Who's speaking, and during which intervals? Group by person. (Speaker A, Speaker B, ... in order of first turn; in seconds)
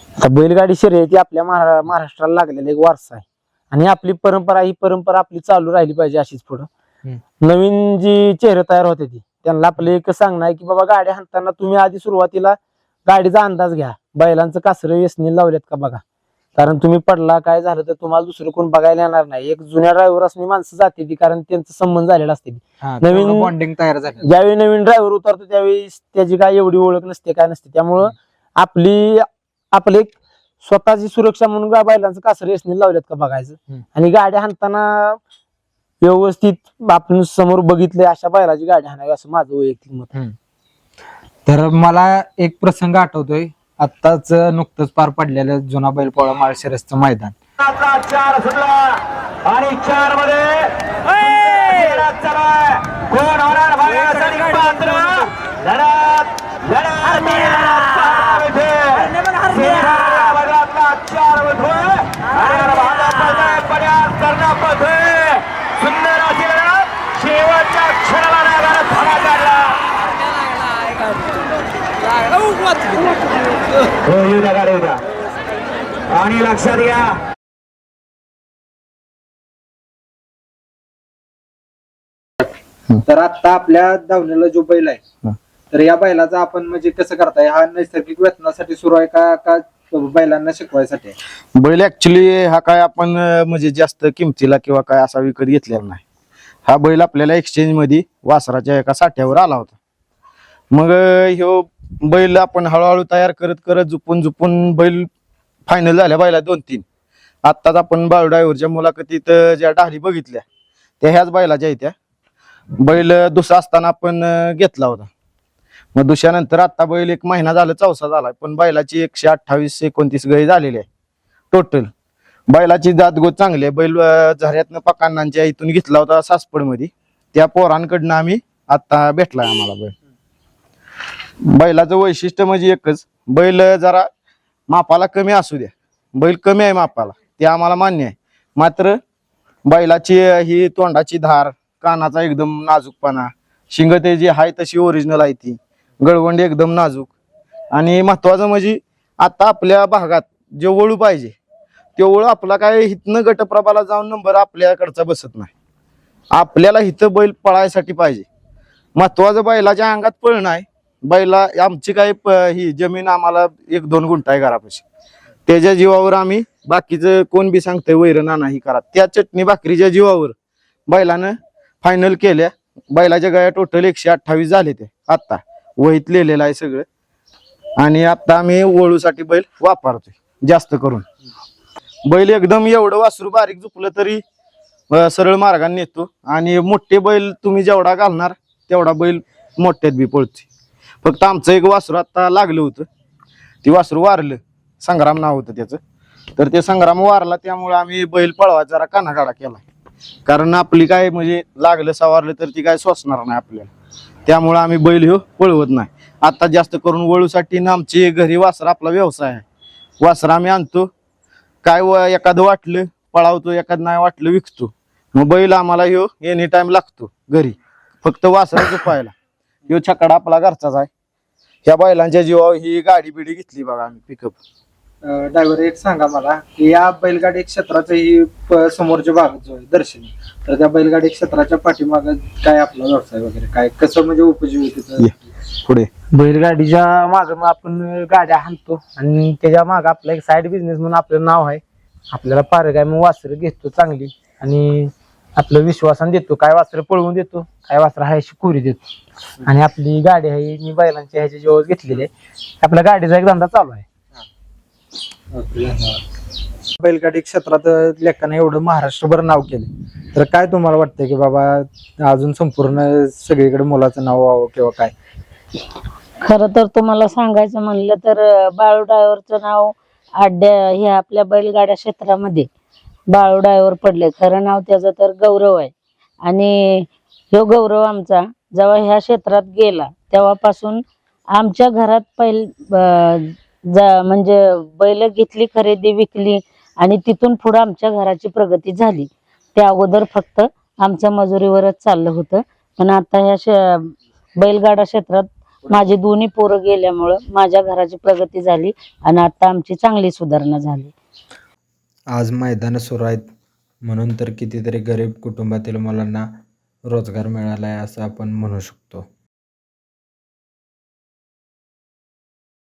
Speaker A: 0.2-6.7, 7.4-16.0, 16.6-23.5, 24.2-35.2, 36.0-40.1, 236.1-248.8, 249.4-253.8
Speaker B: 22.8-24.3, 41.5-47.4, 83.0-85.0, 85.7-91.2, 225.0-235.3, 255.3-256.0, 256.8-264.9, 302.1-303.3, 303.8-309.1
Speaker C: 47.6-69.8, 74.0-75.0, 76.1-77.2
Speaker D: 91.5-96.0, 96.7-99.8, 100.7-105.1, 105.7-106.8, 107.4-110.4, 111.0-111.9, 112.8-115.1, 115.9-120.8, 121.5-121.9, 122.5-129.9, 131.5-134.1, 134.7-139.0, 139.7-147.1, 147.7-151.3, 152.0-155.5, 156.3-158.2, 158.9-164.8, 165.4-170.3, 170.9-176.8, 177.8-181.1, 182.1-184.2, 184.9-190.4, 191.0-192.9, 193.6-195.8, 196.4-199.6, 200.2-203.7, 204.2-209.4, 210.0-210.9, 211.6-219.1, 219.7-220.9, 221.6-224.4
Speaker E: 266.2-272.5, 273.1-275.7, 276.2-280.8, 281.3-300.9